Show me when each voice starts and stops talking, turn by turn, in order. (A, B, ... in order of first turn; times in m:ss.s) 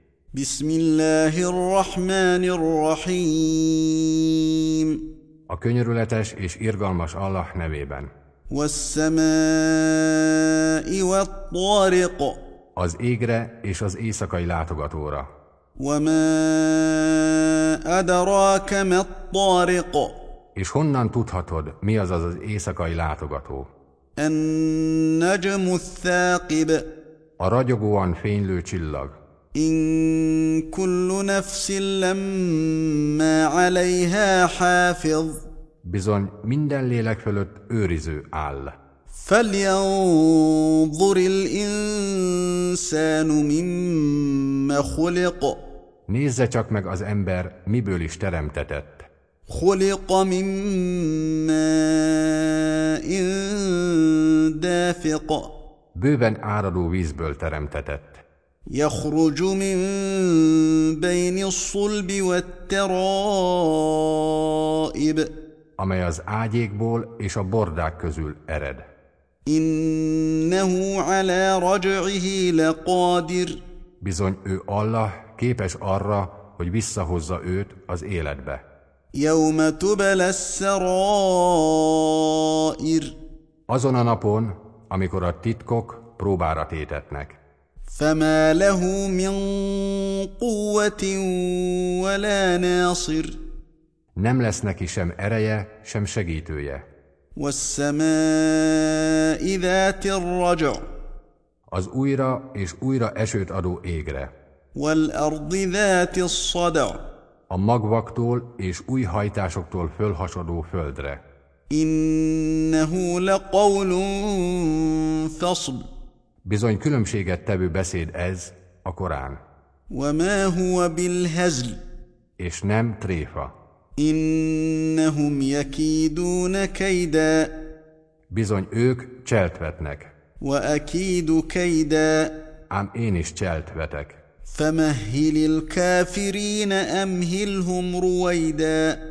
0:00.3-0:05.0 A
0:05.5-0:08.1 B
0:08.5-0:12.4 A
0:12.8-0:15.3 B
0:15.8-0:20.1 A
0:20.6-0:23.7 B
0:24.2-0:26.8 A
0:27.4-0:29.1 B
0:29.5-0:35.4 A
0:35.8-0:38.7 B
0:39.2-0:45.6 A
0:46.1-0:49.0 B
0:49.5-0:55.5 A
0:55.9-0:58.2 B
0:58.7-1:05.3 A
1:05.8-1:08.8 B
1:09.5-1:13.6 A
1:14.0-1:18.6 B
1:19.2-1:23.1 A
1:23.7-1:27.4 B
1:27.9-1:33.4 A
1:34.2-1:36.8 B
1:37.4-1:40.8 A
1:41.7-1:44.3 B
1:44.8-1:47.0 A
1:47.5-1:51.2 B
1:51.7-1:55.8 A
1:56.4-1:59.4 B
1:59.9-2:01.8 A
2:02.4-2:03.5 B
2:04.0-2:07.5 A
2:08.3-2:10.1 B
2:10.4-2:12.3 A
2:12.7-2:14.2 B
2:14.5-2:19.0 A